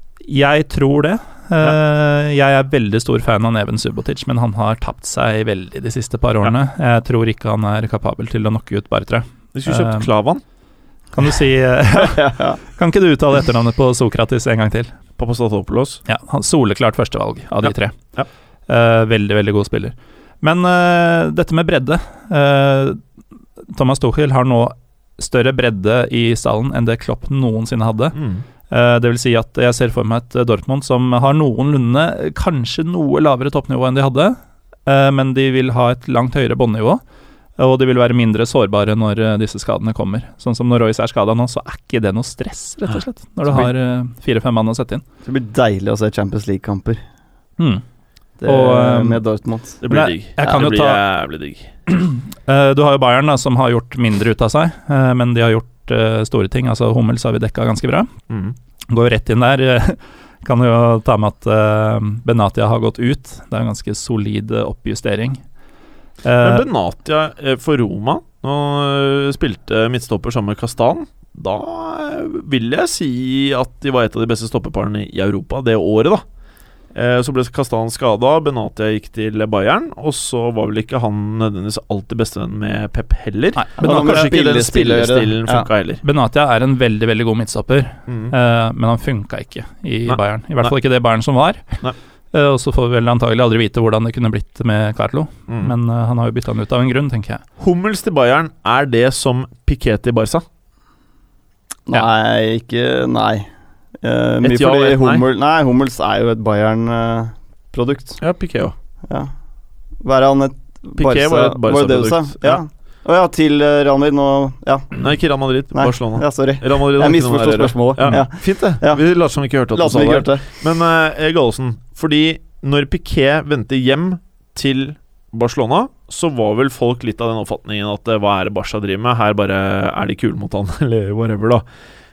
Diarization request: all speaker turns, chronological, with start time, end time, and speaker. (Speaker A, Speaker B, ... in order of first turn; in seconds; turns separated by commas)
Speaker A: 0.2-10.1, Speaker B: 9.5-10.4, Speaker A: 11.1-14.9, Speaker C: 12.0-12.6, Speaker B: 15.2-16.0, Speaker A: 16.1-17.9, Speaker B: 17.6-18.3, Speaker A: 18.7-23.0, Speaker A: 23.7-28.1, Speaker B: 28.1-28.4, Speaker A: 28.7-37.0, Speaker A: 37.6-45.0, Speaker C: 45.2-47.0, Speaker C: 48.4-49.8, Speaker A: 48.4-49.2, Speaker B: 49.8-51.7, Speaker A: 49.9-51.0, Speaker A: 51.9-58.1, Speaker B: 58.3-58.5, Speaker A: 58.9-65.4, Speaker A: 66.2-66.7, Speaker B: 66.4-76.2, Speaker B: 76.9-86.0, Speaker A: 83.5-84.3, Speaker C: 83.8-85.7, Speaker A: 86.0-91.6, Speaker B: 88.1-88.3, Speaker B: 90.1-90.7, Speaker A: 92.3-97.4, Speaker B: 95.5-95.7, Speaker B: 97.6-100.4, Speaker C: 101.9-103.5, Speaker C: 104.0-108.2, Speaker B: 104.4-105.2, Speaker B: 108.2-108.7, Speaker C: 110.0-115.0, Speaker B: 111.0-112.6, Speaker B: 115.0-131.6, Speaker C: 115.7-119.0, Speaker C: 119.7-120.5